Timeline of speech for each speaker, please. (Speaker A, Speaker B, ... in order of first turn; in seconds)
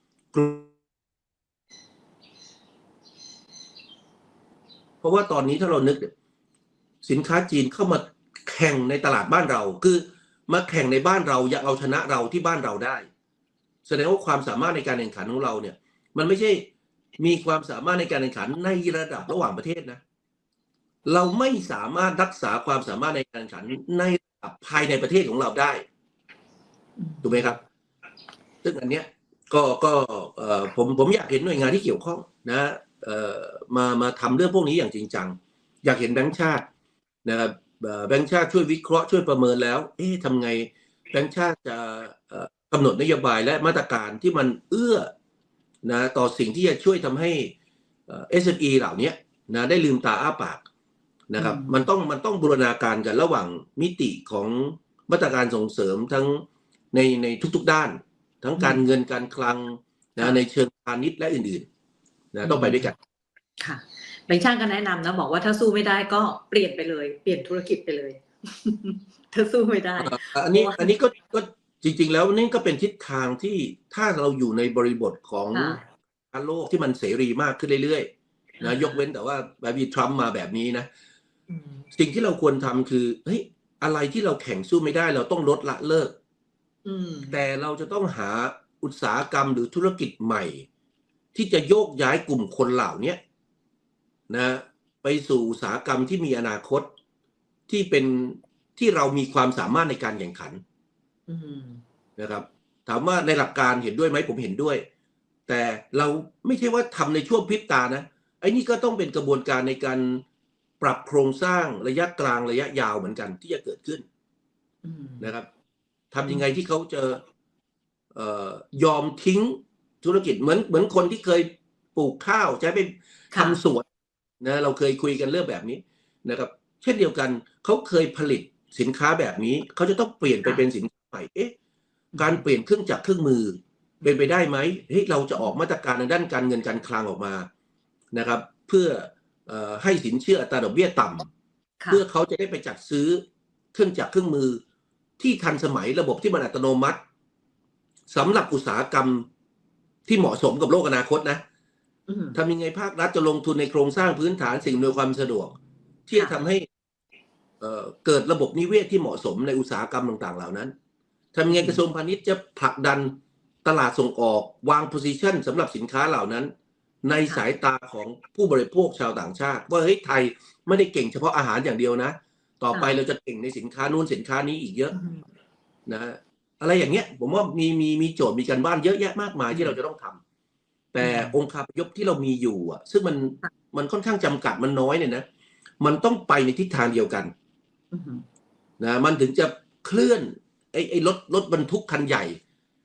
Speaker A: 0.3-0.7, 5.0-6.1, 7.0-13.1, 13.8-16.7, 17.2-20.0, 21.1-25.8, 27.2-27.6, 28.6-36.6, 37.2-45.1, 45.8-47.5, 48.1-50.6, 51.3-61.7, 62.3-63.0, 70.0-75.8, 76.3-78.1, 78.6-80.9, 81.9-86.1, 87.3-90.7, 91.3-93.2, 94.3-96.9, 97.7-100.6, 102.2-104.8, 105.5-110.2, 110.8-114.0, 115.2-115.5, 116.1-117.2, 118.1-123.8, 124.4-131.5, 132.2-137.5, 138.1-141.3, 141.9-143.2, 143.7-144.6, 145.2-147.0, 148.1-149.3, 150.1-151.4, 152.3-156.7, 157.6-160.7, 161.3-166.5, 167.0-174.9, 175.8-180.2, 180.9-185.2, 185.8-187.3, 188.8-192.4
Speaker B: 27.0-27.6, 51.4-51.9, 58.6-58.8, 62.4-62.9, 63.6-70.9, 75.5-75.8, 78.6-79.0, 81.5-81.8, 86.8-87.4, 101.3-101.8, 114.8-115.3, 123.3-123.6, 132.1-132.4, 152.1-152.4, 161.5-161.8, 174.9-175.2, 179.5-179.8, 181.0-181.3, 187.9-188.2